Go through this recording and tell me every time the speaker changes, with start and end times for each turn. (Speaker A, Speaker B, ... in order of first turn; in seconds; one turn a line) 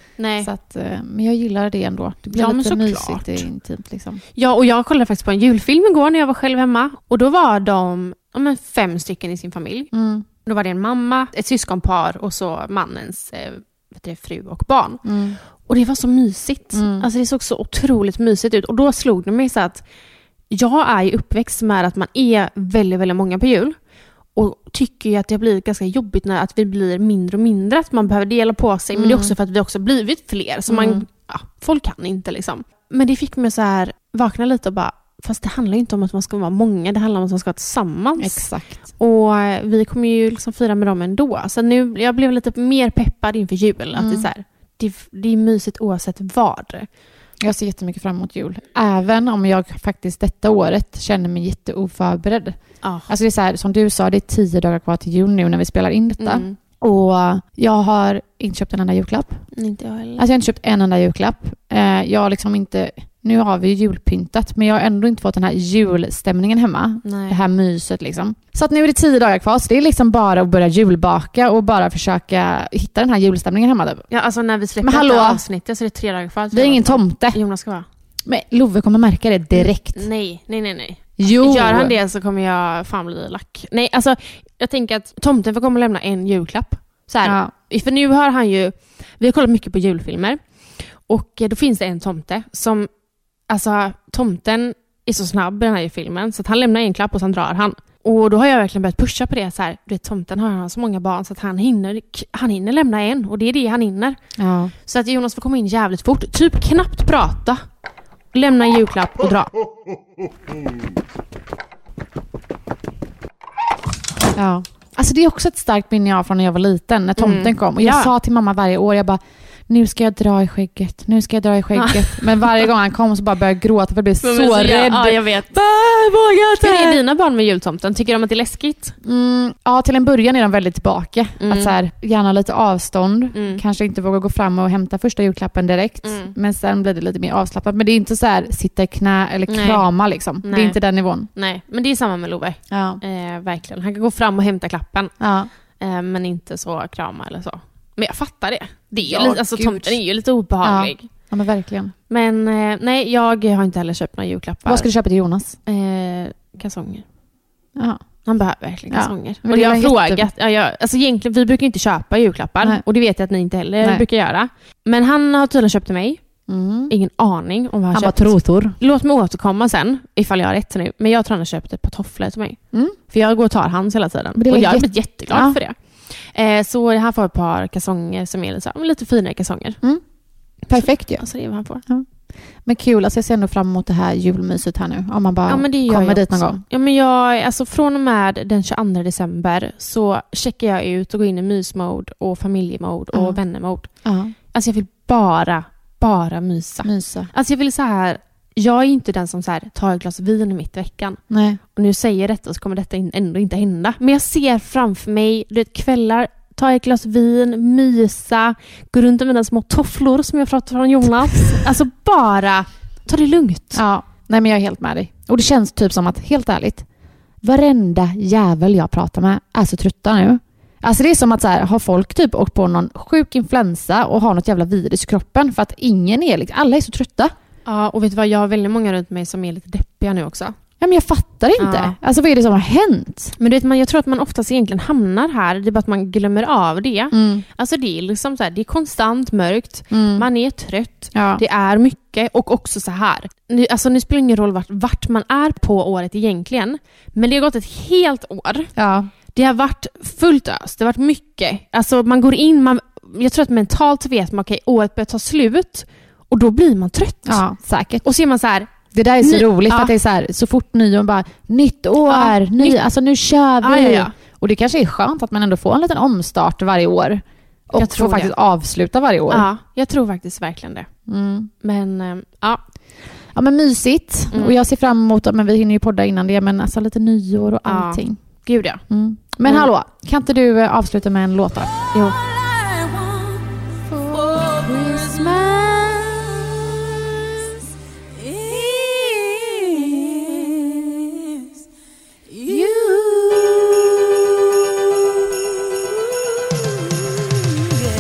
Speaker A: 0.2-0.5
Speaker B: 0.4-4.2
Speaker A: 2.3-3.5
Speaker A: 4.3-9.9
Speaker B: 9.9-10.2
Speaker A: 10.4-15.0
Speaker B: 15.0-15.4
Speaker A: 15.6-19.8
Speaker B: 16.7-17.1
Speaker A: 20.5-23.7
Speaker A: 24.4-38.4
Speaker B: 28.9-29.3
Speaker B: 30.7-31.0
Speaker B: 38.2-38.9
Speaker A: 39.0-46.9
Speaker B: 43.9-44.3
Speaker B: 47.4-52.6
Speaker A: 52.8-53.1
Speaker B: 53.1-59.4
Speaker A: 56.2-56.5
Speaker A: 59.5-60.2
Speaker B: 60.2-74.0
Speaker A: 67.0-67.4
Speaker A: 74.1-77.9
Speaker B: 74.8-75.4
Speaker B: 76.5-77.4
Speaker B: 78.2-80.0
Speaker A: 79.5-90.4
Speaker B: 81.2-82.0
Speaker B: 87.2-87.5
Speaker A: 91.1-92.9
Speaker A: 93.5-104.2
Speaker B: 104.4-104.7
Speaker A: 104.8-107.6
Speaker A: 108.3-109.5
Speaker B: 114.3-127.0
Speaker A: 117.2-118.1
Speaker A: 121.8-122.6
Speaker A: 124.2-125.6
Speaker A: 126.6-128.9
Speaker B: 129.0-141.3
Speaker A: 131.4-131.8
Speaker A: 133.3-133.6
Speaker A: 136.0-136.3
Speaker A: 139.5-139.9
Speaker A: 140.4-140.8
Speaker A: 141.3-145.1
Speaker B: 142.7-143.0
Speaker B: 145.2-145.5
Speaker A: 145.8-151.1
Speaker B: 149.0-150.0
Speaker B: 150.6-151.9
Speaker A: 152.1-154.9
Speaker B: 154.7-155.6
Speaker A: 155.7-157.0
Speaker B: 157.8-158.0
Speaker A: 158.2-166.2
Speaker B: 158.9-160.3
Speaker B: 166.5-166.9
Speaker A: 166.9-179.8
Speaker B: 167.9-168.8
Speaker B: 174.3-175.6
Speaker B: 180.7-181.2
Speaker A: 180.7-181.8
Speaker B: 182.6-186.6
Speaker A: 185.5-193.9
Speaker B: 193.1-193.4
Speaker B: 194.0-194.3
Speaker A: 194.5-201.2
Speaker B: 196.8-197.3
Speaker B: 201.3-201.6
Speaker A: 201.7-213.8
Speaker B: 213.7-216.8
Speaker B: 217.4-227.3
Speaker A: 227.7-230.5
Speaker B: 230.8-233.3
Speaker A: 231.6-231.9
Speaker A: 233.4-248.7
Speaker B: 237.1-237.4
Speaker B: 239.9-240.2
Speaker B: 241.1-241.4
Speaker B: 248.8-249.1
Speaker A: 249.3-257.4
Speaker B: 257.2-258.0
Speaker A: 258.0-259.9
Speaker B: 258.9-269.5
Speaker A: 262.1-262.8
Speaker A: 263.6-264.1
Speaker A: 267.7-268.3
Speaker A: 269.3-270.9
Speaker B: 271.1-271.5
Speaker A: 271.6-272.6
Speaker B: 273.3-278.2
Speaker A: 274.3-274.6
Speaker A: 277.6-278.8
Speaker B: 278.9-281.9
Speaker A: 281.9-282.2
Speaker B: 283.9-285.9
Speaker A: 284.1-285.6
Speaker B: 288.7-290.8
Speaker B: 292.4-294.0